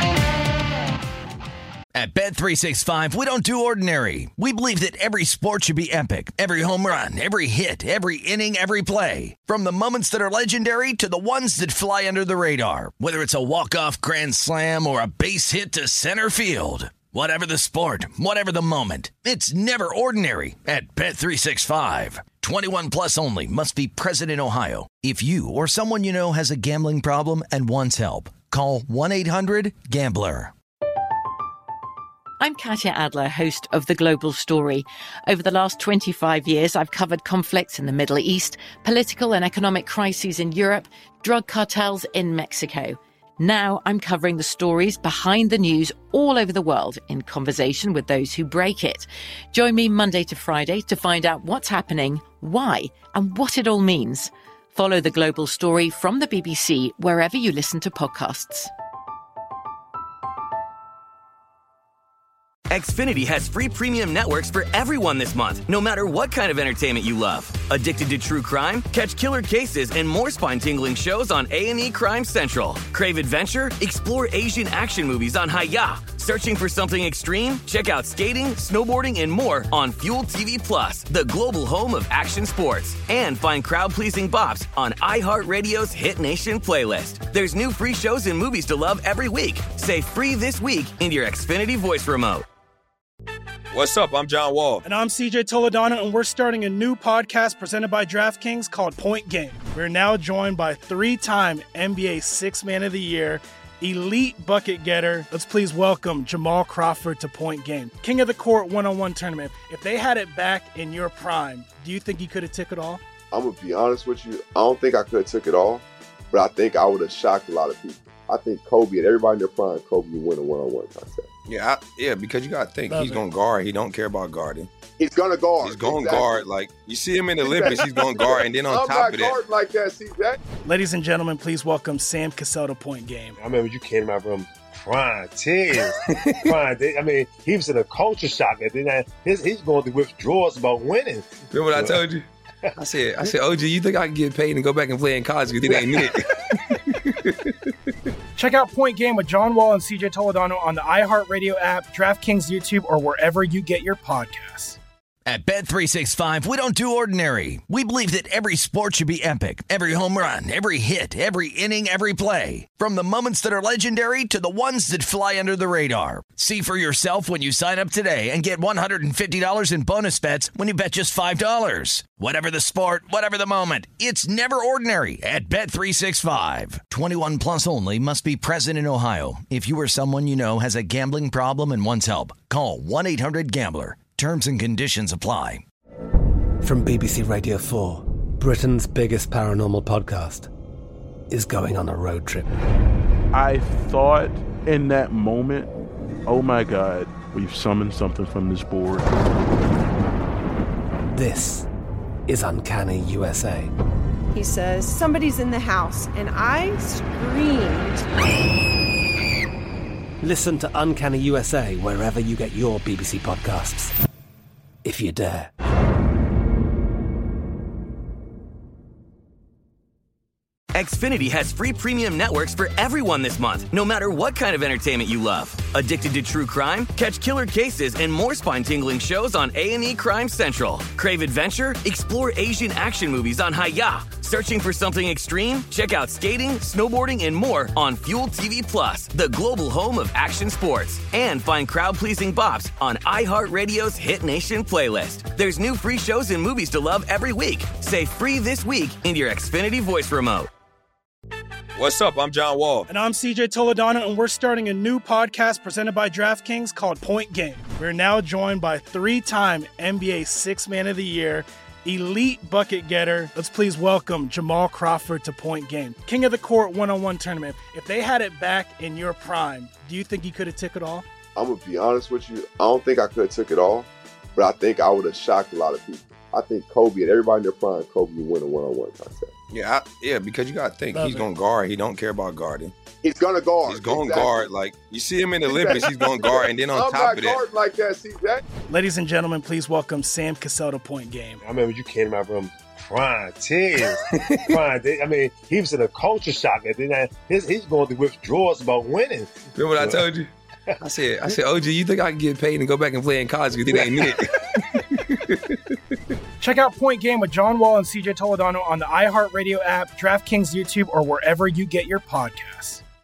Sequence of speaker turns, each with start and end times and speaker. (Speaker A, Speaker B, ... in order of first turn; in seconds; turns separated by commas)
Speaker A: 1.9-30.5, Speaker B: 32.4-58.7, Speaker C: 62.7-92.5, Speaker D: 93.7-94.8, Speaker E: 94.8-113.0, Speaker F: 113.3-121.3, Speaker D: 121.5-124.7, Speaker F: 125.0-126.3, Speaker D: 125.6-129.4, Speaker F: 127.4-130.4, Speaker E: 130.7-133.3, Speaker G: 133.4-142.0, Speaker D: 141.5-142.2, Speaker D: 142.8-146.2, Speaker D: 146.9-147.5, Speaker E: 148.4-154.8, Speaker A: 155.3-185.6, Speaker H: 186.6-190.5, Speaker H: 191.3-192.5, Speaker I: 193.3-195.7, Speaker I: 196.3-199.1, Speaker H: 201.1-201.7, Speaker H: 202.3-203.7, Speaker J: 204.3-208.1, Speaker H: 210.2-213.9, Speaker H: 214.8-215.5, Speaker C: 220.7-250.5, Speaker D: 251.8-252.9, Speaker E: 252.9-271.1, Speaker F: 271.4-279.3, Speaker D: 279.5-282.7, Speaker F: 283.0-284.4, Speaker D: 283.6-287.4, Speaker F: 285.5-288.4, Speaker E: 288.7-291.4, Speaker G: 291.4-294.0, Speaker G: 294.5-300.0, Speaker D: 299.5-300.3, Speaker D: 300.8-304.3, Speaker G: 303.7-304.1, Speaker D: 305.1-305.4, Speaker E: 306.4-312.8